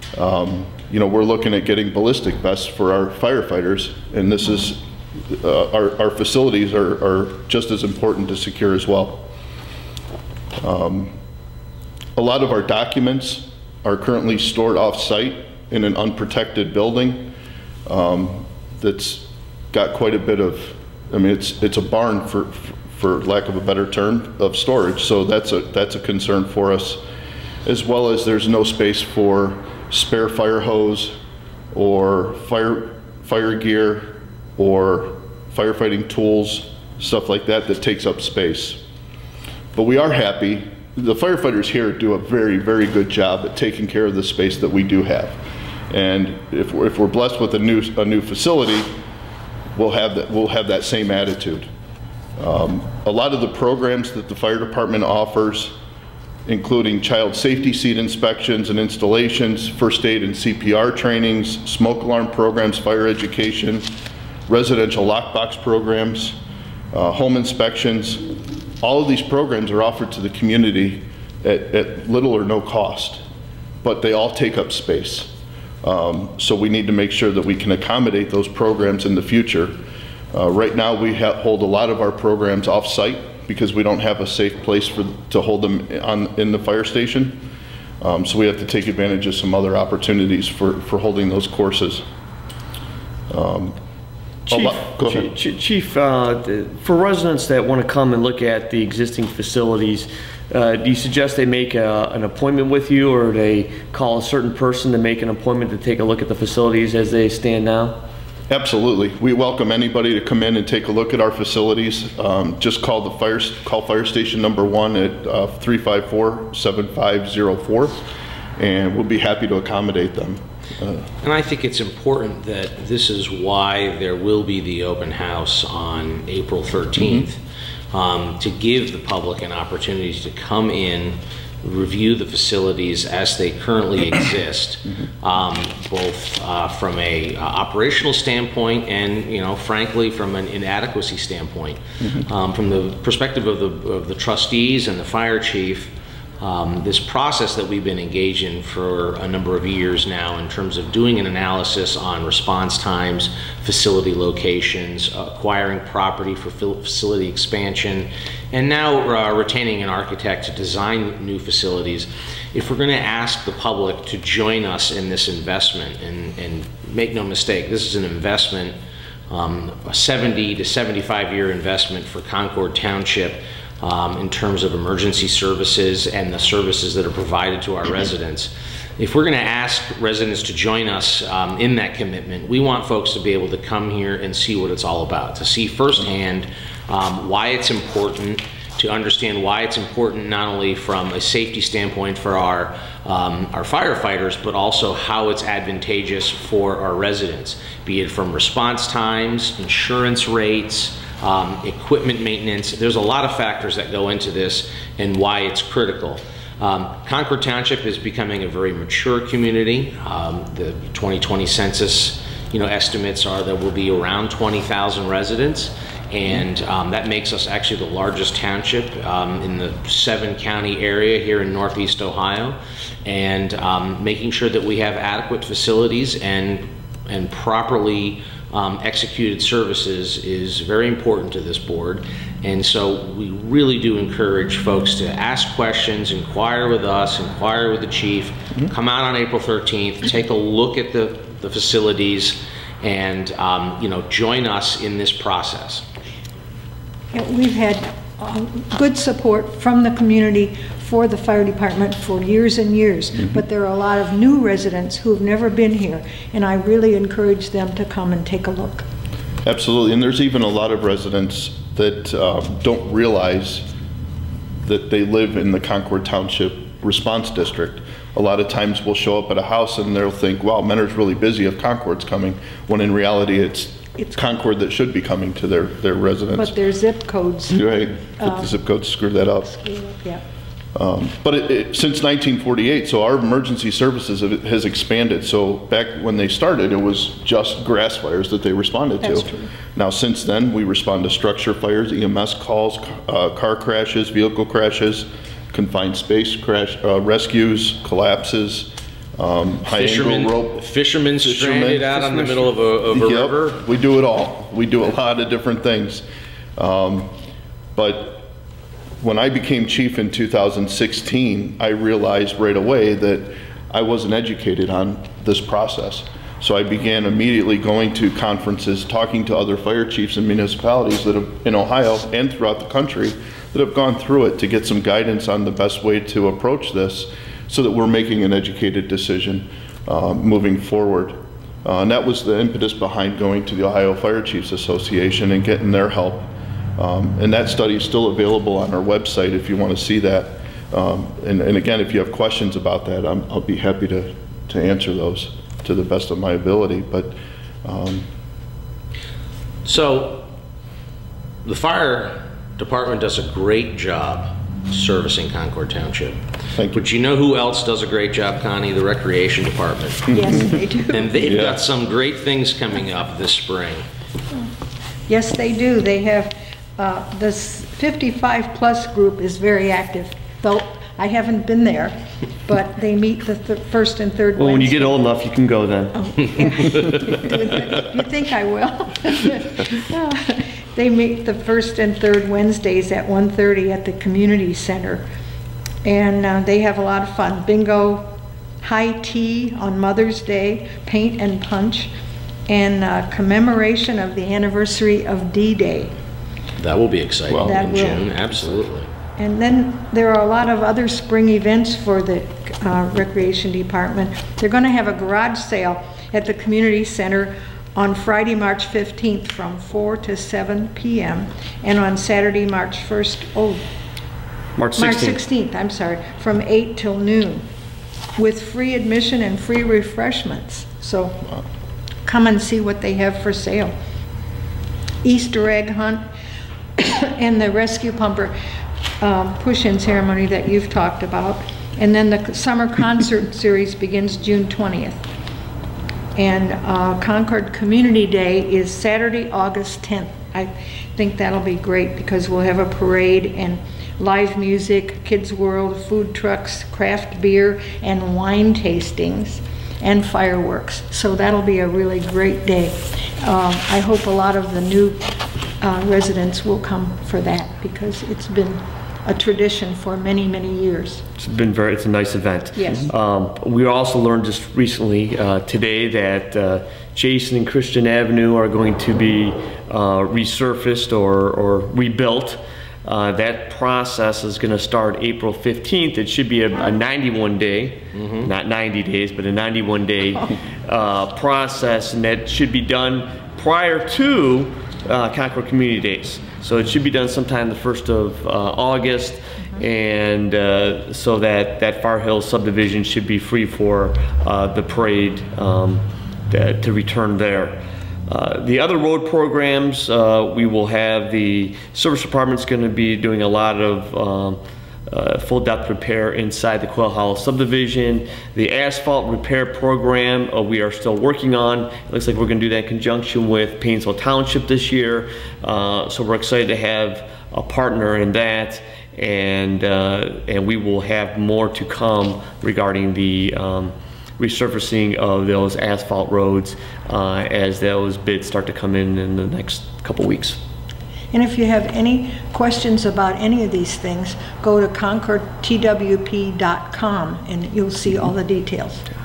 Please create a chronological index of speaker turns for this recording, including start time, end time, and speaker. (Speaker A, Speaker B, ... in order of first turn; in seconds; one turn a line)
Speaker A: 0.1-9.3
Speaker A: 10.6-11.1
Speaker A: 12.2-17.3
Speaker A: 17.9-27.0
Speaker A: 27.6-31.2
Speaker A: 31.7-38.8
Speaker A: 39.7-48.9
Speaker A: 49.7-51.7
Speaker A: 52.4-55.8
Speaker A: 56.5-63.9
Speaker A: 64.5-66.4
Speaker A: 66.9-68.3
Speaker A: 68.8-73.2
Speaker A: 73.8-75.3
Speaker A: 75.8-79.8
Speaker A: 80.3-87.5
Speaker A: 88.0-92.0
Speaker A: 93.3-93.8
Speaker A: 94.5-95.3
Speaker B: 94.5-108.0
Speaker A: 108.5-118.0
Speaker A: 118.6-121.1
Speaker C: 121.2-127.4
Speaker C: 127.9-168.8
Speaker C: 169.3-245.8
Speaker D: 247.1-258.8
Speaker A: 259.4-263.6
Speaker A: 264.6-276.5
Speaker D: 276.3-278.5
Speaker A: 277.5-279.6
Speaker D: 279.5-280.2
Speaker A: 280.7-300.6
Speaker D: 289.0-289.5
Speaker C: 299.7-303.6
Speaker A: 301.2-302.1
Speaker A: 302.9-306.0
Speaker A: 306.6-307.1
Speaker A: 307.8-308.3
Speaker A: 309.0-348.1
Speaker C: 349.6-350.2
Speaker C: 351.4-356.2
Speaker A: 356.5-356.9
Speaker C: 356.7-360.1
Speaker A: 360.1-360.4
Speaker D: 360.1-361.2
Speaker C: 360.9-363.8
Speaker A: 361.2-361.6
Speaker D: 365.1-375.1
Speaker B: 374.4-376.0
Speaker D: 375.9-385.0
Speaker D: 385.8-388.1
Speaker D: 388.6-391.9
Speaker D: 392.5-395.9
Speaker C: 396.6-398.9
Speaker A: 397.3-397.6
Speaker D: 397.4-398.3
Speaker D: 399.2-413.6
Speaker B: 414.6-415.2
Speaker D: 414.8-417.4
Speaker D: 418.1-421.3
Speaker D: 422.0-423.7
Speaker D: 425.0-426.0
Speaker D: 426.8-428.3
Speaker D: 429.0-435.0
Speaker D: 436.1-455.0
Speaker D: 455.6-461.0
Speaker B: 461.2-530.4
Speaker D: 462.5-462.9
Speaker C: 477.9-478.3
Speaker D: 531.1-538.8